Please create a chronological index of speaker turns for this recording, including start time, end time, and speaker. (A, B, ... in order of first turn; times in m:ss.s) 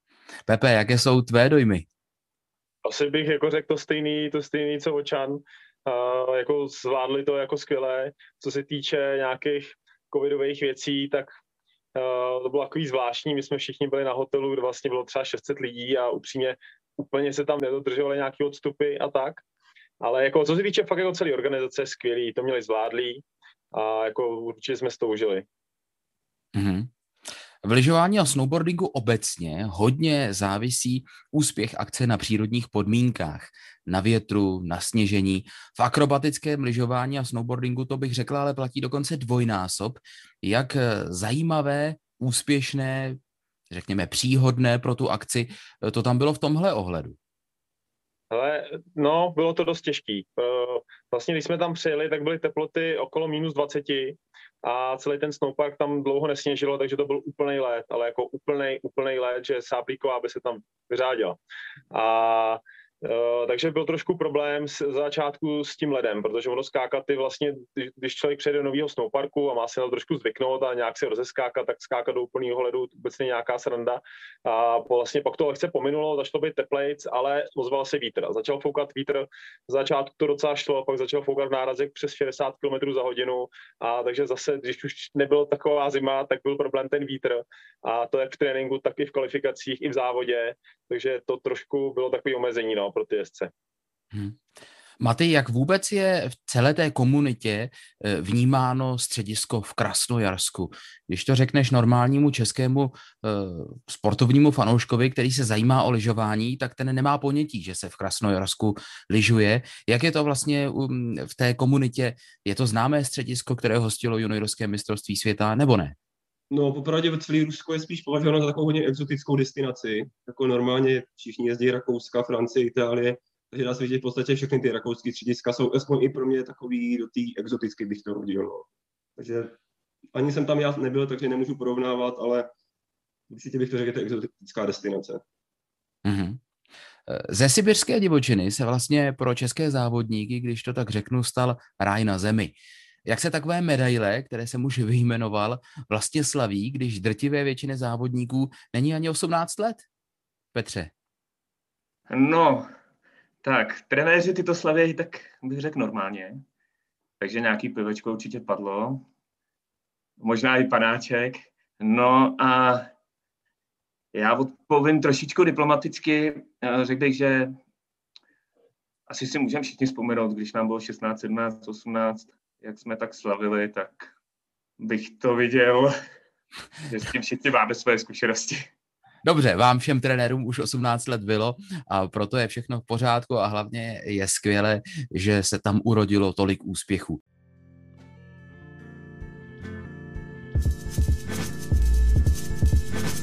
0:00.5-0:01.9 A
0:02.8-0:11.3 B
0:12.0-0:19.4 B
0:20.0-0:25.5 B
0:26.5-0:26.9 A
0:27.6-0:43.2 A
0:43.7-0:47.2 A
0:48.3-1:01.4 B
1:01.9-1:33.5 B
1:34.1-1:34.4 A
1:35.0-1:56.0 A
1:56.5-2:09.6 C
2:10.1-2:12.5 C
2:13.3-2:15.2 C
2:16.0-2:16.4 A
2:17.1-2:22.6 A
2:23.1-2:29.8 A
2:30.5-2:30.9 A
2:32.1-2:32.7 D
2:33.4-2:36.4 D
2:37.2-2:39.0 D
2:40.2-2:42.9 D
2:44.1-2:47.6 D
2:49.1-2:54.1 D
2:54.8-2:55.9 D
2:56.8-2:58.7 D
2:59.2-3:07.2 A